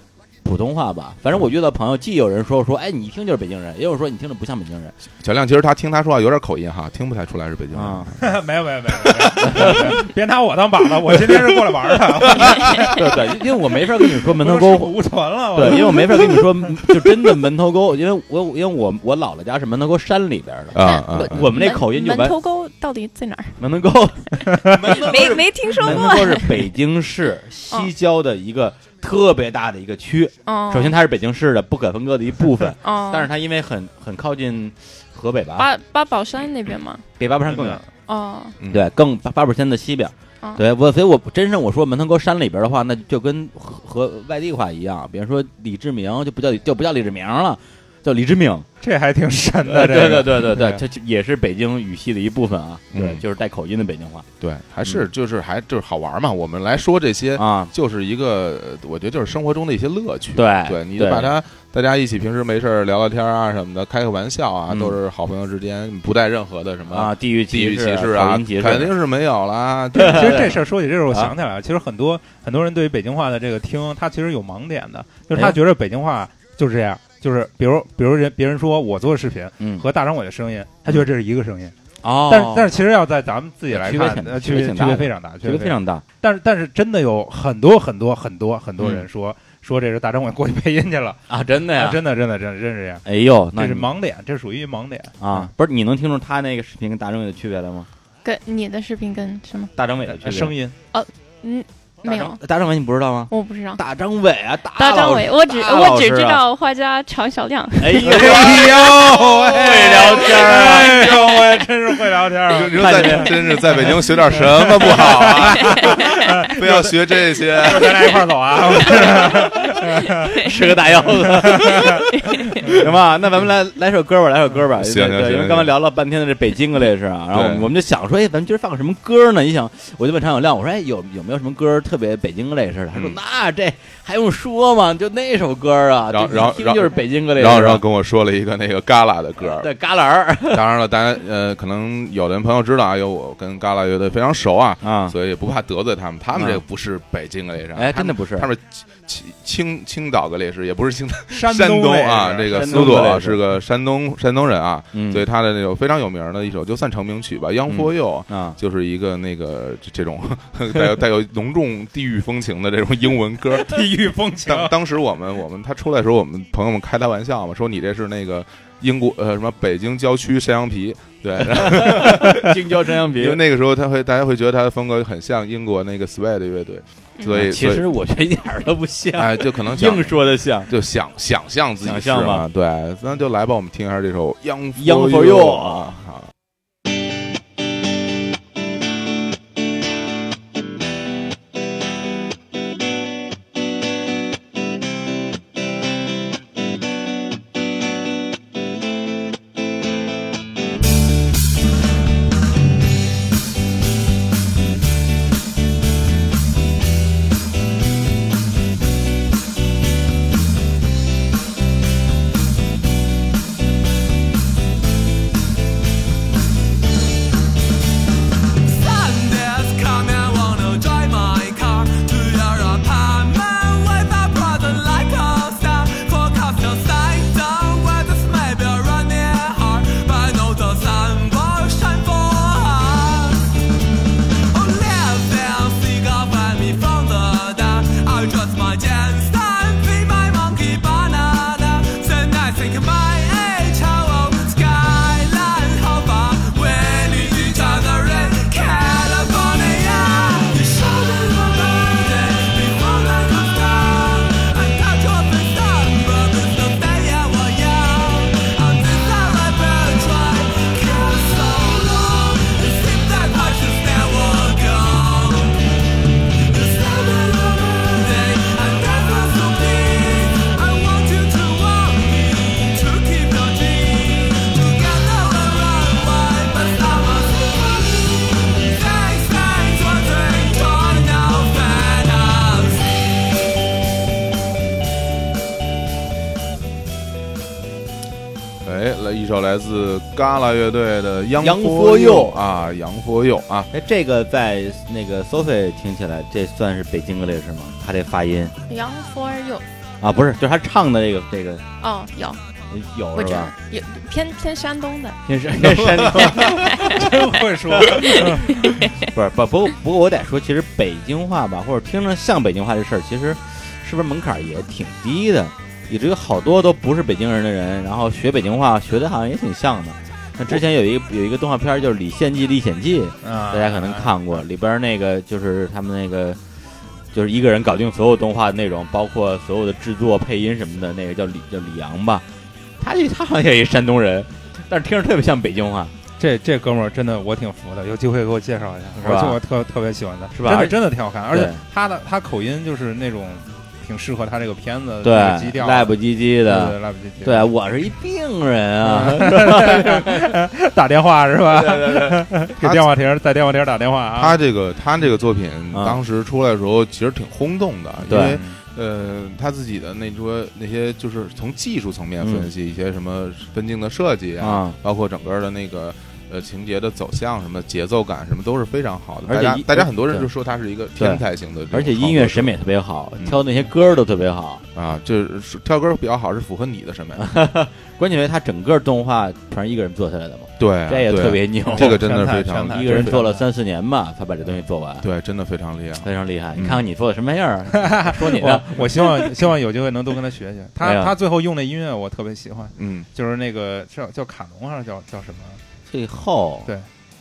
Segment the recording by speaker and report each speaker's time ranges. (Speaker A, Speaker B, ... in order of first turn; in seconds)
Speaker A: 0.4-4.9, 7.7-8.1, 9.4-9.9, 12.8-14.9, 15.5-22.3, 23.6-35.7, 37.2-37.8, 38.7-48.6, 49.6-54.3, 57.4-57.7, 60.3-61.3, 64.7-65.0, 66.9-68.9, 69.9-71.3, 79.6-79.8, 82.0-82.7, 83.7-86.0, 88.8-89.0, 91.3-92.0, 93.0-93.9, 95.2-97.9, 99.8-100.5, 102.0-106.4, 107.8-111.4, 112.7-113.3, 120.3-122.1, 122.6-137.8, 139.4-140.6, 144.8-145.1, 146.3-146.6, 147.7-148.5, 152.5-153.4, 154.9-155.2, 157.7-158.6, 171.4-173.4, 177.3-180.7, 181.8-182.4, 184.8-185.9, 291.4-292.4, 293.7-298.5, 300.0-301.6, 302.7-303.5, 305.2-307.1, 307.8-308.2, 309.0-326.4, 327.1-332.2, 332.8-335.9, 339.0-339.4, 340.3-340.8, 341.3-341.6, 345.0-350.4, 351.5-352.2, 355.7-356.0, 358.1-358.4, 362.2-362.5, 364.4-364.8, 369.2-370.3, 371.0-374.6, 377.2-382.1, 382.6-385.1, 386.0-389.3, 390.8-391.1, 395.9-396.7
Speaker B: 5.2-8.2, 9.5-9.8, 11.2-12.9, 20.7-21.5, 38.6-38.8, 52.9-53.2, 54.4-70.6, 108.0-108.9, 112.4-118.3, 124.8-125.7, 127.3-127.7, 132.9-133.2, 136.1-139.7, 140.5-177.8, 179.1-186.3, 288.6-293.7, 352.6-352.9, 354.1-372.5, 374.7-377.2, 380.6-383.2, 385.0-386.8, 392.8-393.1
Speaker C: 8.2-13.2, 14.2-17.2, 24.5-25.0, 37.5-37.8, 48.8-50.8, 70.0-81.7, 82.3-95.5, 100.1-100.7, 108.0-120.5, 121.1-122.8, 151.3-153.1, 163.6-164.7, 306.2-308.9, 323.2-324.4, 336.2-347.5, 348.8-354.4, 358.1-358.6, 381.6-383.4, 387.8-395.6
Speaker D: 20.8-23.6, 24.8-26.6, 30.4-30.9, 32.8-33.3, 35.6-37.0, 38.1-38.6, 98.2-99.7, 100.9-102.4, 103.3-103.8, 104.8-108.2, 115.7-116.0, 120.2-120.5, 122.2-122.5, 298.7-299.6, 301.8-302.4, 303.1-305.2, 306.4-307.1, 307.9-308.4
Speaker E: 218.7-233.5, 234.5-265.7, 266.3-283.1